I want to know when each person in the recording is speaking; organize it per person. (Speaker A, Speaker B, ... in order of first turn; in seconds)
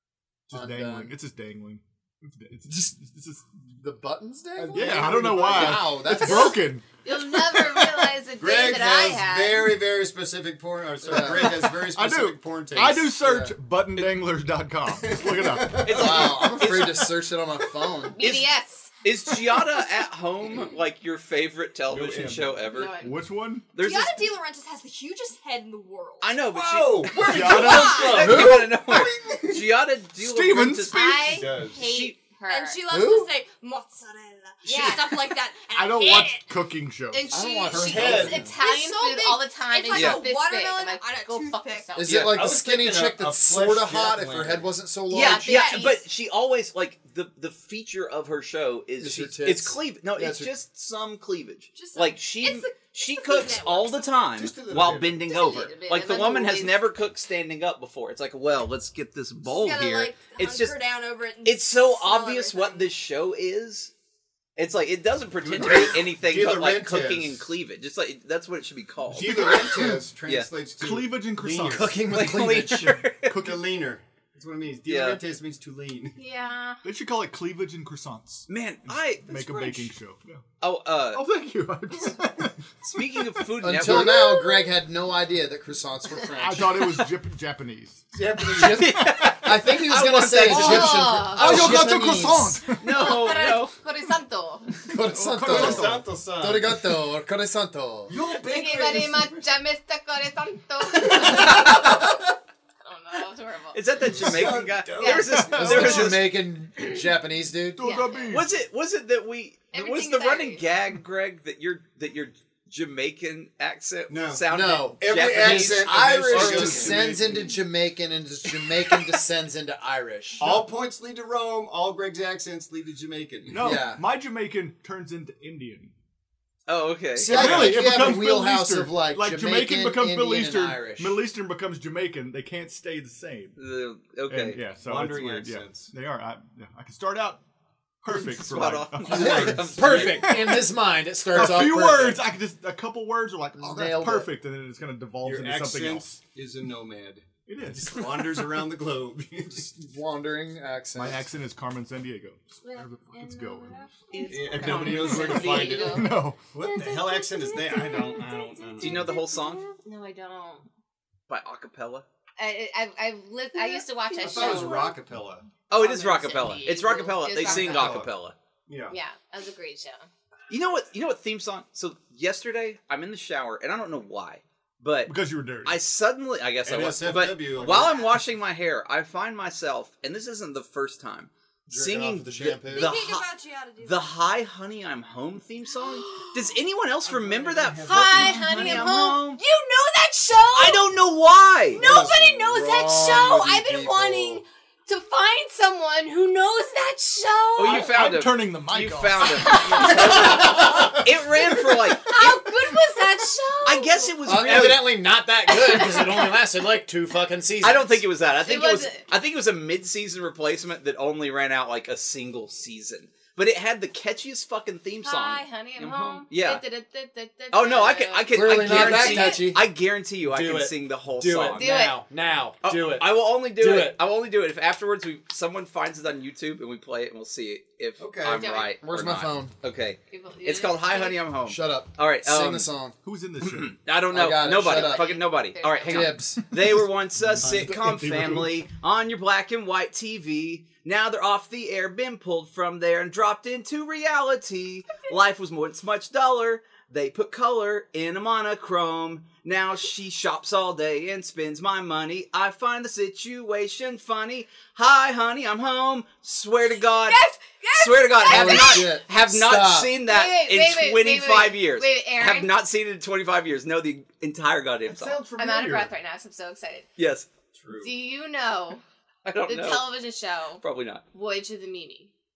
Speaker A: 0.5-3.5, 4.6-8.1, 11.2-15.9, 21.9-23.7, 27.2-28.4, 30.2-31.4, 35.7-37.4, 69.3-69.9, 70.8-72.5, 73.1-73.7, 76.8-80.4, 81.1-84.0, 86.4-89.3, 90.5-93.1, 94.9-96.1, 105.4-106.2, 107.8-108.5, 116.3-117.1, 123.5-125.9, 127.2-133.6, 134.3-137.4, 138.0-140.7, 141.3-146.2, 147.4-148.6, 150.9-153.9, 154.9-156.4, 175.1-175.8, 197.6-200.3, 233.0-233.8, 236.7-238.6, 264.9-265.9
Speaker B: 0.5-1.1, 3.7-6.7, 11.0-11.6, 13.2-13.6, 15.9-18.2, 28.2-28.8, 32.9-33.3, 37.3-38.5, 41.9-45.8, 49.0-50.5, 71.7-73.0, 83.6-87.0, 88.4-92.6, 94.9-98.1, 105.5-107.8, 114.5-120.6, 123.6-124.0, 127.2-131.2, 139.1-142.3, 143.6-144.3, 149.5-151.3, 181.7-182.9, 192.5-194.4, 200.0-200.9, 204.2-208.0, 218.3-224.0, 228.8-229.5, 231.4-232.9, 234.1-235.2, 235.8-236.4, 258.2-260.0
Speaker C: 4.7-5.8, 8.3-13.2, 14.9-16.6, 26.5-29.6, 31.2-31.9, 37.7-38.5, 42.1-44.7, 54.3-55.3, 65.4-67.5, 69.1-72.0, 73.3-76.2, 88.1-88.9, 95.4-96.8, 98.1-99.5, 104.1-105.7, 114.1-117.5, 120.4-123.7, 127.3-128.1, 134.8-135.9, 145.2-149.7, 154.2-159.1, 164.1-165.5, 167.4-168.1, 168.7-169.0, 176.6-178.1, 187.0-188.9, 191.8-193.2, 228.0-228.7, 237.4-237.8, 267.5-267.9
Speaker D: 6.1-9.8, 18.0-19.3, 22.7-23.2, 30.9-32.8, 34.6-35.2, 37.1-42.3, 45.1-46.0, 55.3-56.9, 76.2-76.8, 90.5-91.8, 92.8-94.8, 98.3-102.3, 102.8-103.8, 105.0-105.5, 107.8-108.4, 109.7-110.6, 152.6-160.7, 162.4-165.0, 165.7-168.1, 168.9-170.1, 186.1-186.3, 187.8-190.8, 191.7-197.9, 199.3-200.9, 201.5-204.1, 205.5-206.2, 208.3-209.1, 215.0-219.5, 221.5-222.0, 228.3-228.8, 230.1-231.2, 234.5-236.2, 257.1-257.8, 260.0-262.5, 265.4-266.9, 267.8-268.8, 269.4-272.1
Speaker E: 15.8-17.1, 18.2-18.5, 19.0-23.0, 23.7-24.3, 26.2-31.2, 31.8-32.1, 39.9-40.2, 45.1-60.8, 61.4-63.9, 64.6-69.6, 72.1-73.3, 74.9-75.2, 78.5-79.8, 80.6-81.2, 82.8-84.3, 88.7-91.1, 92.8-93.7, 101.3-102.0, 103.7-106.3, 108.3-116.9, 126.7-127.8, 133.6-134.6, 138.1-140.3, 154.3-155.7, 158.8-159.6, 161.3-162.0, 165.7-168.3, 170.5-183.3, 183.8-189.4, 190.5-191.8, 197.6-202.4, 203.6-205.0, 207.6-216.6, 217.5-221.7, 222.6-232.7, 233.4-257.2, 257.7-265.2, 267.0-267.3, 269.2-269.9, 270.6-271.0
Speaker F: 23.8-26.5, 27.1-28.3, 32.5-36.5, 38.4-42.0, 51.7-54.3, 59.5-62.9, 177.6-178.1, 182.7-184.1, 257.1-258.7